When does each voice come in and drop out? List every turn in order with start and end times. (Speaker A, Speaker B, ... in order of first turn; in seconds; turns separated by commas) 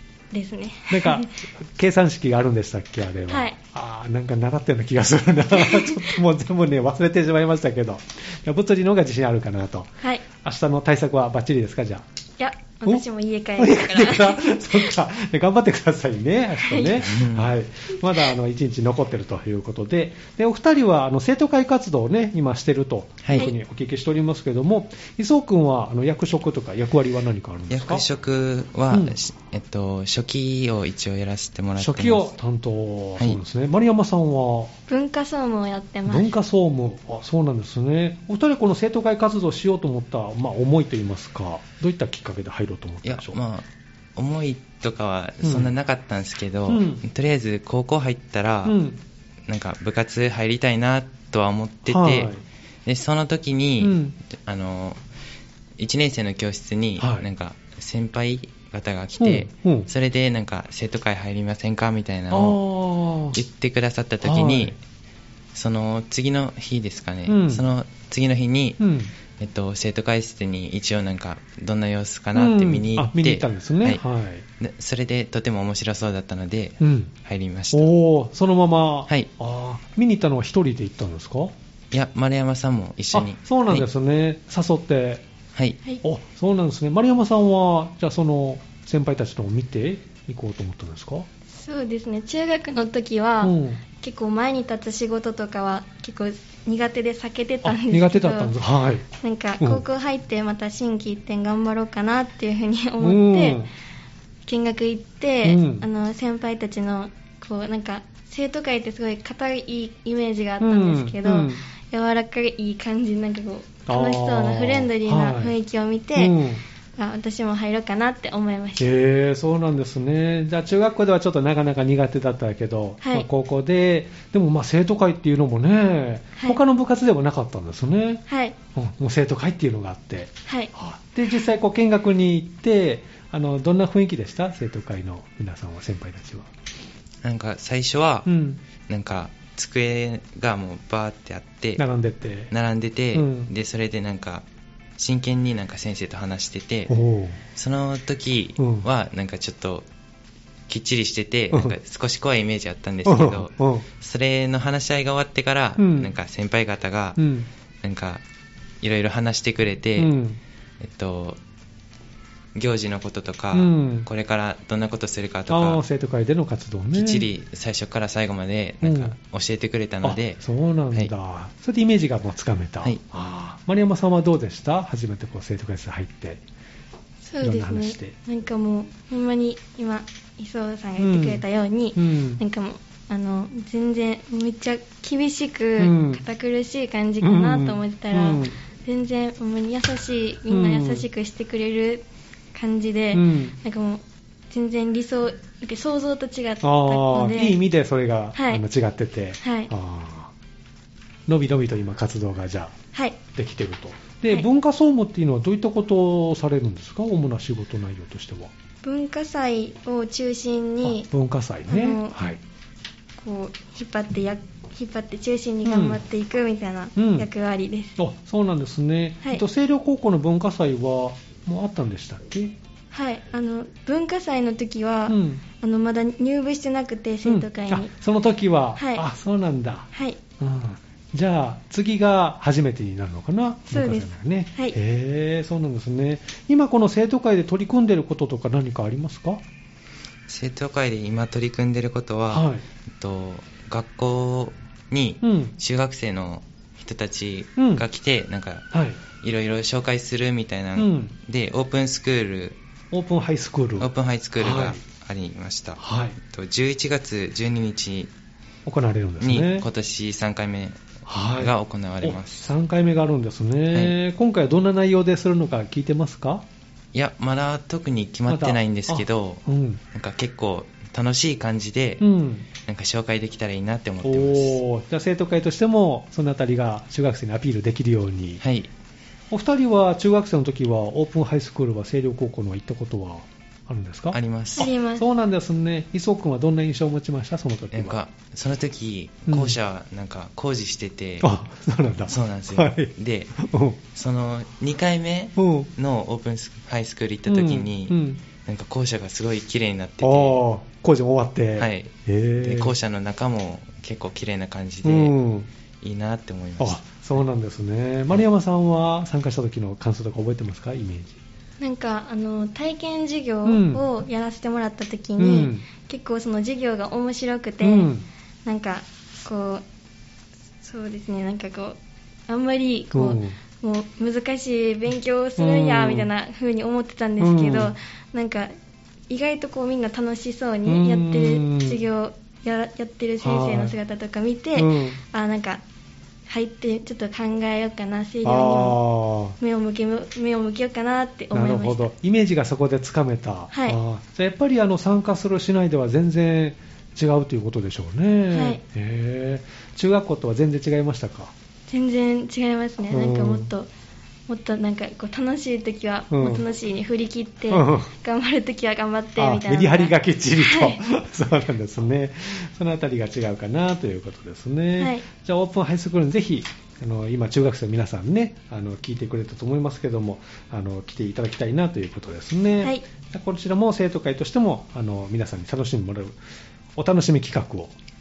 Speaker A: 0.3-1.3, Speaker B: 0.9-12.0, Speaker A: 3.3-3.6, Speaker A: 5.6-6.1, Speaker A: 12.4-14.7, Speaker B: 13.6-28.1, Speaker A: 16.6-17.0, Speaker C: 17.0-17.6, Speaker C: 23.2-23.5, Speaker C: 27.7-32.3, Speaker B: 28.9-29.2, Speaker B: 31.8-34.8, Speaker A: 34.9-36.3, Speaker B: 36.1-43.4, Speaker C: 43.0-48.8, Speaker B: 45.4-45.7, Speaker B: 46.7-47.0, Speaker B: 48.6-49.0, Speaker C: 49.5-52.3, Speaker B: 51.9-52.4, Speaker C: 52.9-55.0, Speaker B: 53.8-54.1, Speaker C: 55.8-62.6, Speaker B: 57.0-57.3, Speaker B: 59.2-59.9, Speaker B: 62.3-63.4, Speaker C: 63.3-64.8, Speaker B: 64.2-64.8, Speaker C: 65.5-68.8, Speaker B: 67.3-67.7, Speaker B: 68.8-69.1, Speaker C: 69.4-74.0, Speaker B: 72.3-74.4, Speaker C: 74.6-77.9, Speaker B: 76.8-77.1, Speaker B: 77.7-81.5, Speaker C: 81.9-83.8, Speaker B: 83.1-85.2, Speaker B: 86.0-91.3, Speaker A: 91.5-98.5, Speaker B: 93.4-93.8, Speaker B: 97.6-99.1, Speaker A: 99.2-103.6, Speaker B: 103.0-103.7, Speaker A: 104.5-116.4, Speaker B: 105.4-105.9, Speaker B: 110.6-111.6, Speaker B: 113.9-115.5, Speaker B: 116.2-116.6, Speaker A: 117.0-118.9, Speaker B: 118.8-128.2, Speaker A: 123.0-123.3, Speaker A: 128.3-128.6, Speaker B: 128.8-136.5, Speaker C: 137.2-138.3, Speaker B: 138.3-138.6, Speaker C: 138.9-141.8, Speaker B: 141.8-142.5, Speaker C: 142.5-144.4, Speaker B: 143.1-143.5, Speaker C: 145.0-146.9, Speaker B: 146.9-147.4, Speaker C: 147.6-149.9, Speaker B: 148.6-148.9, Speaker C: 150.7-157.2, Speaker B: 151.5-151.8, Speaker B: 153.1-153.8, Speaker B: 155.8-156.1, Speaker B: 157.2-157.5, Speaker C: 157.8-158.2, Speaker C: 158.8-160.1, Speaker B: 160.0-160.4, Speaker C: 160.8-161.4, Speaker C: 162.6-165.8, Speaker B: 163.5-164.1, Speaker B: 165.5-167.3, Speaker C: 166.9-170.4, Speaker B: 168.8-169.2, Speaker B: 170.0-176.4, Speaker A: 177.2-197.6, Speaker B: 177.4-178.2, Speaker B: 181.0-181.4, Speaker B: 182.0-182.4, Speaker B: 185.8-186.2, Speaker B: 187.2-188.6, Speaker B: 190.5-191.1, Speaker B: 193.1-193.6, Speaker B: 196.6-200.3, Speaker A: 198.3-198.6, Speaker A: 199.4-199.7, Speaker B: 201.3-202.8, Speaker A: 202.9-203.2, Speaker B: 203.3-208.5, Speaker A: 208.8-211.1, Speaker B: 210.8-212.4, Speaker A: 211.7-212.2, Speaker A: 213.2-218.0, Speaker B: 215.6-216.0, Speaker B: 217.0-217.3, Speaker B: 218.0-222.6, Speaker A: 222.9-227.9, Speaker B: 225.1-225.4, Speaker B: 227.2-239.4, Speaker A: 228.8-229.0, Speaker A: 229.9-230.2, Speaker A: 233.7-234.8, Speaker C: 240.3-252.6, Speaker B: 242.3-242.6, Speaker B: 245.2-245.5, Speaker B: 247.6-247.8, Speaker B: 248.7-249.0, Speaker B: 250.8-251.1, Speaker B: 252.9-254.8, Speaker C: 253.8-258.1, Speaker B: 255.8-256.2, Speaker B: 258.7-259.7, Speaker C: 259.2-262.5, Speaker B: 261.1-266.4, Speaker C: 266.9-272.0, Speaker B: 268.3-269.8, Speaker B: 272.0-272.5, Speaker C: 272.6-274.6, Speaker B: 274.0-278.4, Speaker C: 278.4-278.7, Speaker B: 279.3-284.2, Speaker C: 284.1-284.7, Speaker A: 284.6-285.1, Speaker B: 284.9-288.0, Speaker C: 287.7-291.3, Speaker B: 289.3-289.6, Speaker B: 291.2-293.8, Speaker C: 292.1-293.3, Speaker C: 293.9-300.4, Speaker B: 295.4-295.7, Speaker B: 297.3-298.2, Speaker B: 300.0-302.8, Speaker C: 301.6-305.1, Speaker B: 304.8-305.5, Speaker C: 305.8-306.9, Speaker B: 306.6-311.2, Speaker A: 311.6-317.9, Speaker B: 313.4-313.8, Speaker B: 315.2-315.7, Speaker B: 317.6-318.1, Speaker A: 318.4-319.6, Speaker A: 320.6-328.5, Speaker B: 322.9-323.4, Speaker B: 325.4-326.1, Speaker B: 327.2-327.7, Speaker A: 329.1-335.6, Speaker B: 330.6-331.8, Speaker B: 333.2-333.8, Speaker B: 334.6-335.0, Speaker A: 336.3-338.8, Speaker B: 338.2-339.4, Speaker A: 339.4-341.9, Speaker B: 341.3-351.3, Speaker A: 343.5-343.8, Speaker A: 348.3-348.6, Speaker A: 351.7-353.7, Speaker B: 352.9-353.5, Speaker A: 354.3-360.8, Speaker B: 356.1-356.4, Speaker B: 357.5-357.9, Speaker B: 359.2-376.2, Speaker A: 364.8-365.0, Speaker B: 376.8-377.7